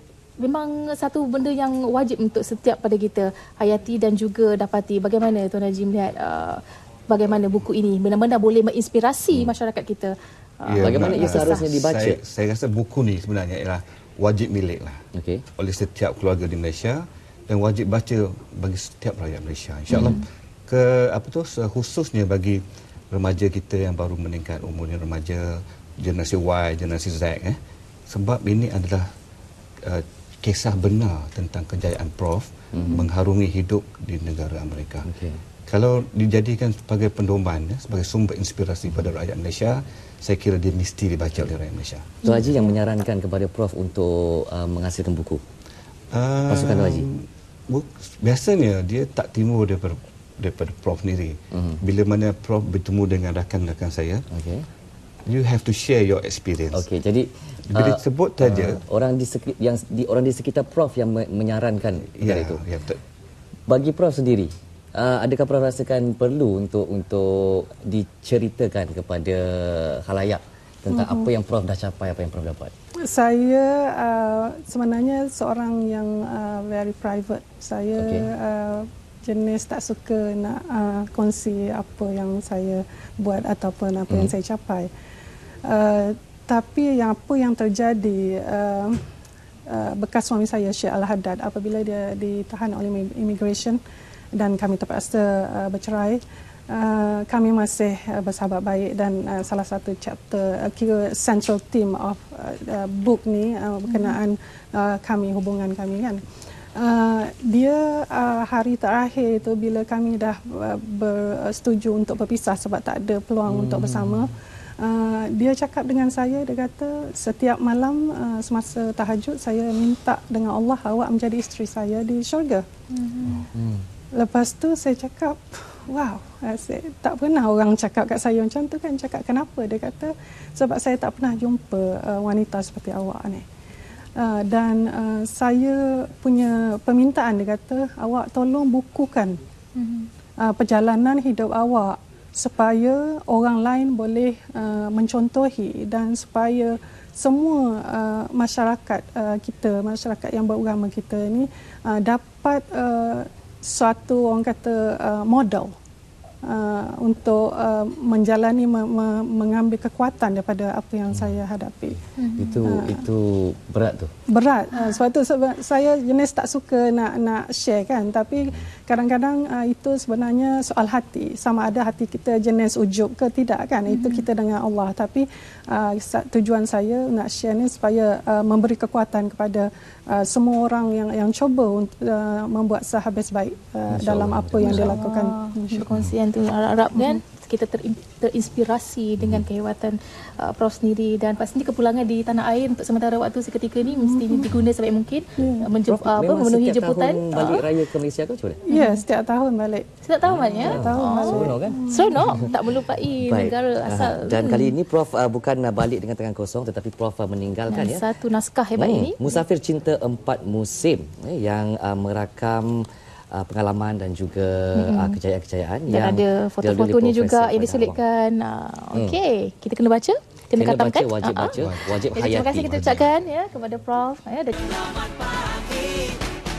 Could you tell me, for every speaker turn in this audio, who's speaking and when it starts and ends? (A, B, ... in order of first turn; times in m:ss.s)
0:00.4-0:11.7 A
0:10.7-0:15.0 B
0:10.8-0:12.2 C
0:15.2-0:15.4 C
0:15.6-0:29.1 B
0:19.9-0:20.2 C
0:20.0-0:20.2 A
0:29.8-0:35.1 B
0:32.7-0:33.1 C
0:35.0-0:35.4 C
0:35.7-0:42.2 B
0:38.9-0:39.1 C
0:42.2-0:42.5 A
0:42.2-0:45.4 C
0:46.1-0:54.2 B
0:46.5-0:47.1 C
0:51.6-0:51.8 C
0:54.3-0:54.7 C
0:55.3-0:56.9 B
0:56.7-1:02.6 C
0:57.7-0:58.8 B
1:02.2-1:03.0 B
1:03.7-1:12.7 C
1:10.9-1:11.3 D
1:13.0-1:24.9 D
1:18.0-1:18.3 C
1:25.7-1:29.0 D
1:29.7-1:33.8 D
1:34.4-1:46.2 D
1:43.9-1:44.2 A
1:46.8-2:02.7 D
1:53.5-1:54.3 C
2:02.9-2:03.5 A
2:03.4-2:03.8 C
2:04.1-2:13.4 D
2:14.2-2:19.4 D
2:19.8-2:20.1 A
2:20.4-2:35.7 D
2:36.4-2:42.0 D
2:41.1-2:41.4 C
2:42.2-2:42.8 A
2:42.4-2:44.1 C
2:42.6-2:43.1 D
2:44.3-3:05.9 D
2:48.4-2:48.7 C
2:53.9-2:54.2 A
3:03.9-3:04.9 C
3:04.6-3:17.7 A
3:13.9-3:14.5 D
3:15.4-3:15.7 D
3:15.8-3:18.6 C
3:18.7-3:19.9 D
3:18.7-3:19.0 A
3:20.0-3:24.8 A
3:20.2-3:22.5 C
3:20.5-3:22.3 D
3:23.2-3:28.0 C
3:27.7-3:29.4 A
3:28.8-3:38.0 C
3:34.8-3:35.2 A
3:35.9-3:41.6 A
3:40.6-3:43.1 C
3:41.6-3:42.0 B
3:42.1-3:46.0 A